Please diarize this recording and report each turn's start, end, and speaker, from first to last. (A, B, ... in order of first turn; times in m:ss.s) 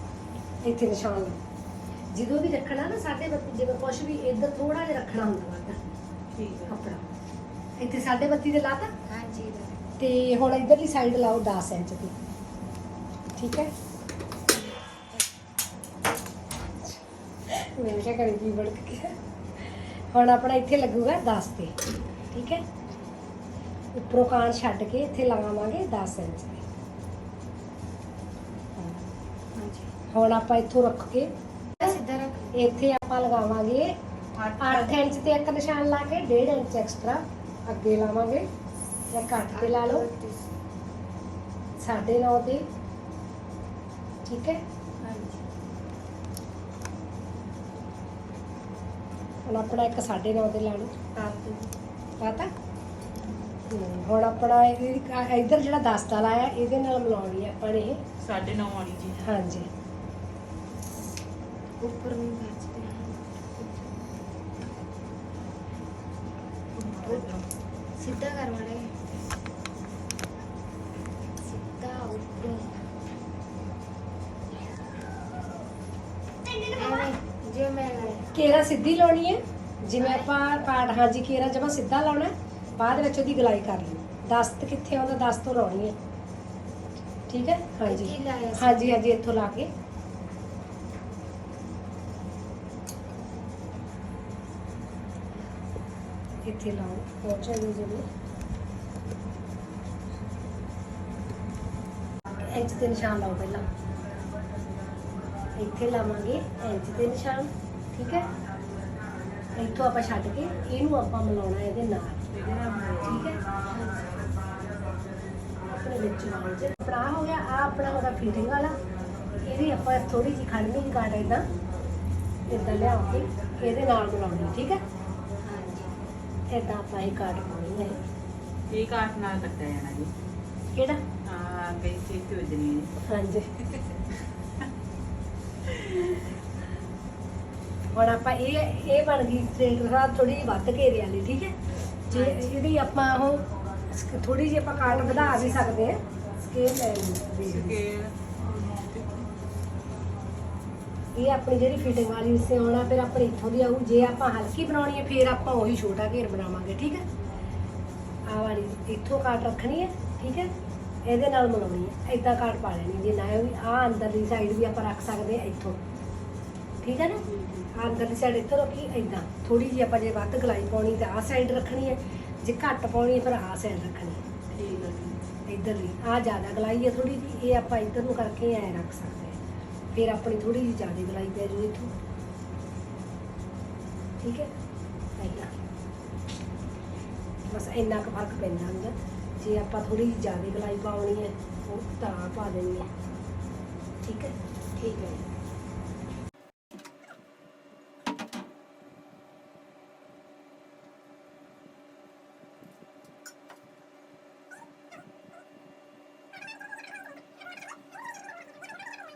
0:00.6-0:01.4 A
0:02.1-0:05.8 A
0:06.3-0:06.8 B
0:06.7-0:07.0 A
0:07.8-0:08.9 A
0:09.1-0:09.8 C
0:10.0-0:12.2 A
0:13.4-0:13.7 A
0:16.8-0:21.8 A
0:22.3-0:22.6 A
0:23.9-0:26.6 A
0:29.6-0:29.9 C
0:30.1-0:31.3 A
0:31.8-0:32.5 C
0:32.5-0:33.9 A
0:34.4-0:34.8 C
0:34.6-0:38.5 A
0:39.1-0:40.1 A
0:39.4-0:40.5 C
0:41.8-0:42.6 A
0:44.2-0:44.6 A
0:45.0-0:45.4 C
0:49.4-0:50.9 A
0:51.2-0:51.7 C
0:52.2-0:52.5 A
0:53.2-0:53.5 C
0:53.7-0:58.0 A
0:58.2-0:59.2 B
0:59.2-0:59.7 A
1:01.8-1:03.9 C
1:06.7-1:07.5 B
1:07.0-1:07.4 C
1:08.0-1:08.9 C
1:11.5-1:12.8 C
1:16.8-1:18.3 C
1:18.3-1:26.0 A
1:27.3-1:29.7 A
1:27.8-1:29.0 C
1:36.4-1:38.1 A
1:42.3-1:43.6 A
1:45.6-1:48.3 A
1:49.5-1:52.3 A
1:52.3-1:53.3 B
1:53.0-1:53.4 A
1:53.7-1:54.2 C
1:55.7-1:58.8 A
1:59.4-2:01.5 A
2:02.5-2:04.8 A
2:05.4-2:05.9 C
2:06.5-2:08.0 A
2:08.7-2:10.1 B
2:10.8-2:11.0 A
2:11.2-2:12.9 B
2:13.0-2:13.5 A
2:15.6-2:16.2 B
2:17.9-2:21.5 A
2:22.1-2:27.8 A
2:22.1-2:22.5 C
2:27.4-2:29.3 B
2:31.2-2:37.0 A
2:38.3-2:40.5 A
2:41.0-2:45.8 A
2:46.8-2:54.2 A
2:47.3-2:47.7 B
2:54.6-2:55.2 B
2:55.5-2:59.4 A
2:59.9-3:01.9 A
3:04.2-3:04.5 A
3:05.2-3:05.5 A
3:07.5-3:12.9 A
3:14.0-3:14.4 A
3:14.8-3:15.2 C